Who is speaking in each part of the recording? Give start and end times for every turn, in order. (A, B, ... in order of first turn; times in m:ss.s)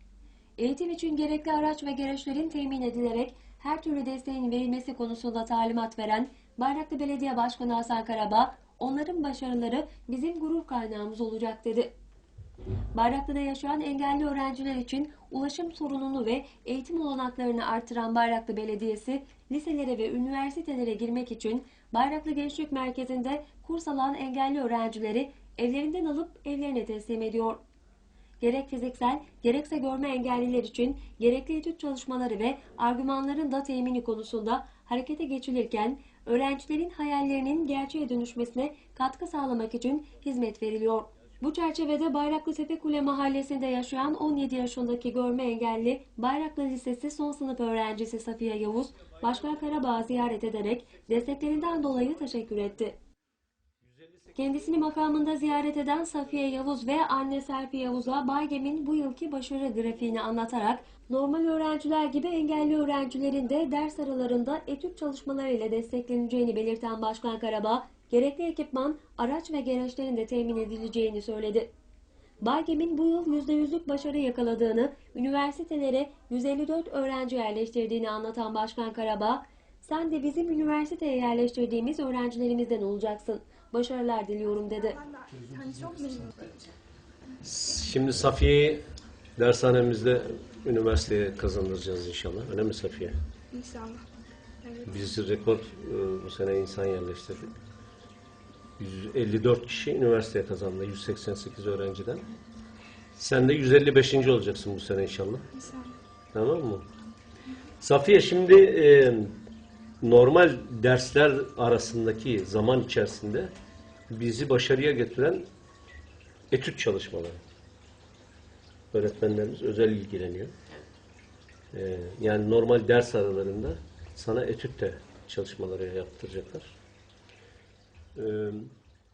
0:00.6-0:11.9 A
0:12.9-0:27.6 A
0:28.4-0:53.0 A
0:53.8-0:55.0 B
0:54.4-1:11.7 A
1:12.4-1:25.0 A
1:24.8-1:26.7 C
1:27.4-1:28.8 B
1:29.4-1:33.2 B
1:33.5-1:34.1 C
1:34.6-1:35.0 C
1:34.9-1:37.6 B
1:38.8-1:42.3 B
1:43.2-1:45.5 B
1:45.5-1:46.0 C
1:46.3-1:46.8 B
1:47.8-1:49.4 B
1:50.0-1:53.5 B
1:54.1-1:55.5 B
1:56.5-1:57.4 B
1:58.9-2:00.6 B
2:01.7-2:06.8 B
2:08.2-2:08.8 B